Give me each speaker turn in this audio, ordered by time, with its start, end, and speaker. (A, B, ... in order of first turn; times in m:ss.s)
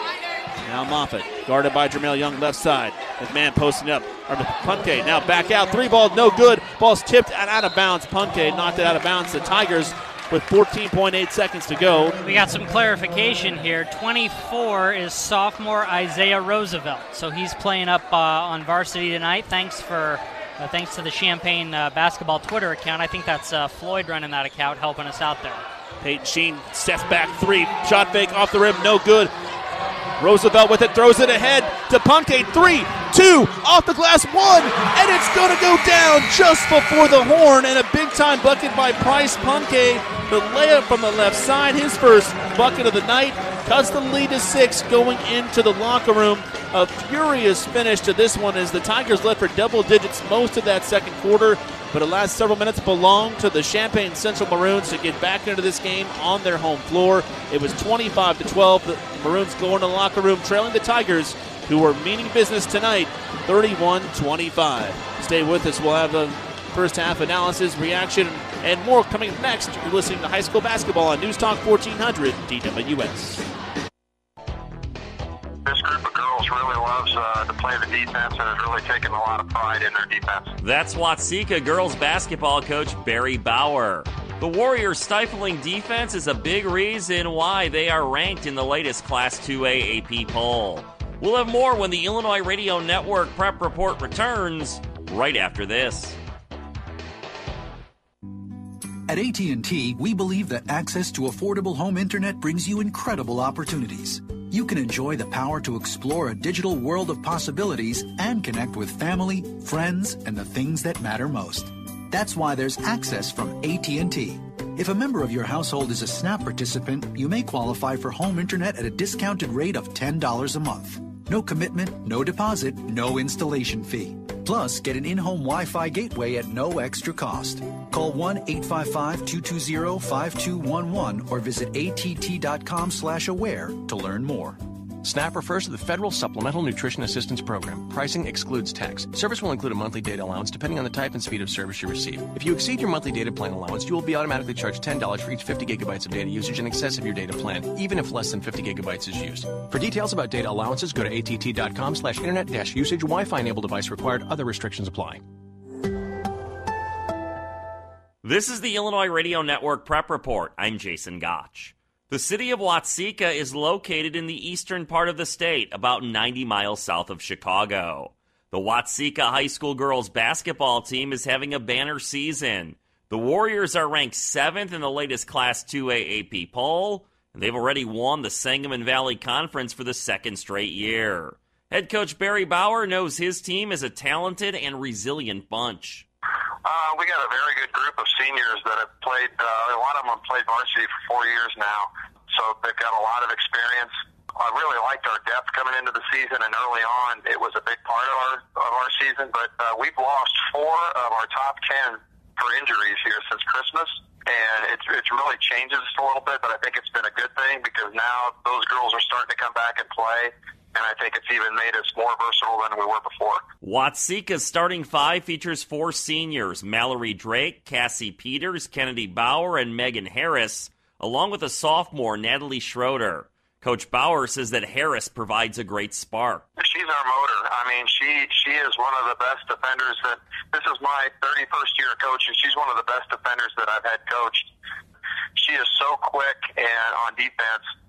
0:00.6-0:12.2 A
0:12.2-0:25.6 B
0:26.0-0:29.3 A
0:30.2-1:13.4 A
1:15.6-1:20.5 C
1:20.6-1:36.2 D
1:39.1-2:14.6 E
2:15.0-2:35.2 F
2:38.2-3:06.0 D
3:06.6-3:33.5 C
3:33.6-3:46.4 D
3:46.6-3:54.5 C
3:55.4-3:57.7 C